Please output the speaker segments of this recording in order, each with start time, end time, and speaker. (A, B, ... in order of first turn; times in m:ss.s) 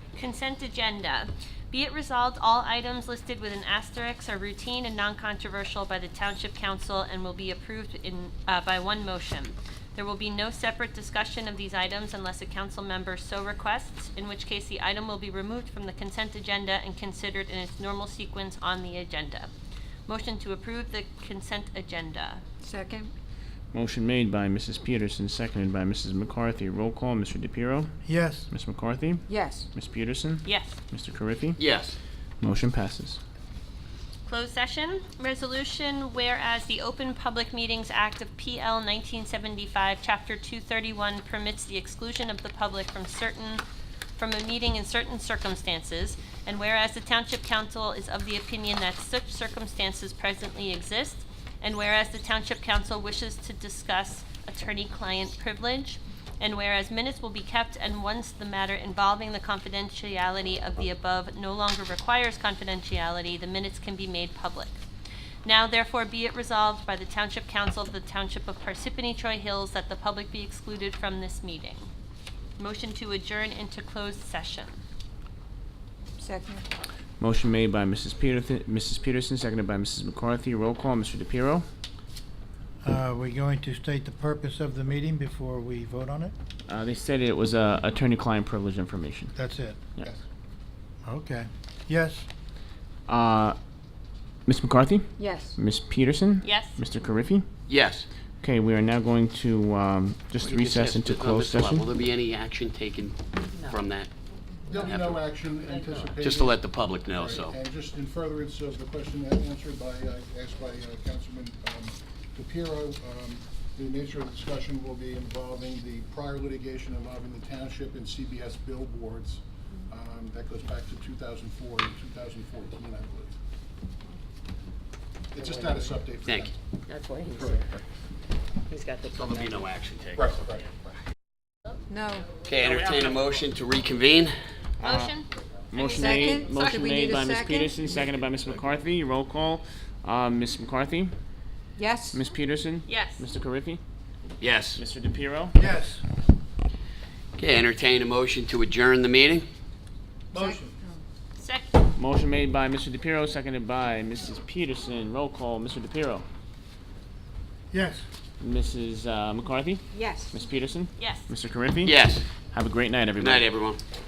0:00.2-0:19.5 A
0:20.1-0:22.4 A
0:22.6-0:23.1 B
0:23.7-0:27.9 C
0:28.0-0:28.5 D
0:28.5-0:31.6 C
0:29.3-0:29.7 B
0:30.4-0:30.8 A
0:31.6-0:32.0 E
0:32.4-0:33.2 C
0:34.3-0:43.6 A
0:44.2-1:04.8 A
1:05.4-1:11.9 A
1:12.6-1:14.8 A
1:16.2-1:16.6 B
1:17.2-1:21.7 C
1:22.8-1:26.3 D
1:26.7-1:29.3 C
1:29.4-1:29.8 D
1:31.1-1:32.3 D
1:33.1-1:33.6 C
1:34.5-1:37.5 C
1:35.2-1:35.6 B
1:36.4-1:36.8 A
1:37.7-1:38.1 E
1:38.4-1:41.9 C
1:40.4-1:44.1 E
1:44.7-2:03.3 F
1:44.8-1:45.2 E
1:45.7-1:46.2 G
1:46.2-1:47.6 E
2:05.3-2:06.5 F
2:05.4-2:05.9 G
2:06.2-2:06.5 E
2:06.9-2:07.7 G
2:07.3-2:07.7 F
2:08.7-2:09.7 G
2:09.1-2:10.3 E
2:10.2-2:10.7 F
2:11.9-2:12.3 B
2:12.4-2:14.3 E
2:14.8-2:15.2 C
2:14.8-2:16.3 A
2:15.7-2:21.1 C
2:16.0-2:17.7 B
2:21.8-2:22.2 B
2:22.1-2:23.8 C
2:22.9-2:23.2 A
2:24.4-2:24.8 E
2:24.8-2:25.6 C
2:25.6-2:26.0 D
2:27.4-2:29.5 E
2:30.3-2:30.7 D
2:30.3-2:31.0 B
2:31.4-2:31.7 A
2:32.0-2:36.2 C
2:37.7-2:38.0 D
2:38.4-2:42.0 C
2:39.9-2:40.3 B
2:41.0-2:41.3 A
2:41.8-2:42.2 E
2:42.5-2:43.5 C
2:43.2-2:43.8 E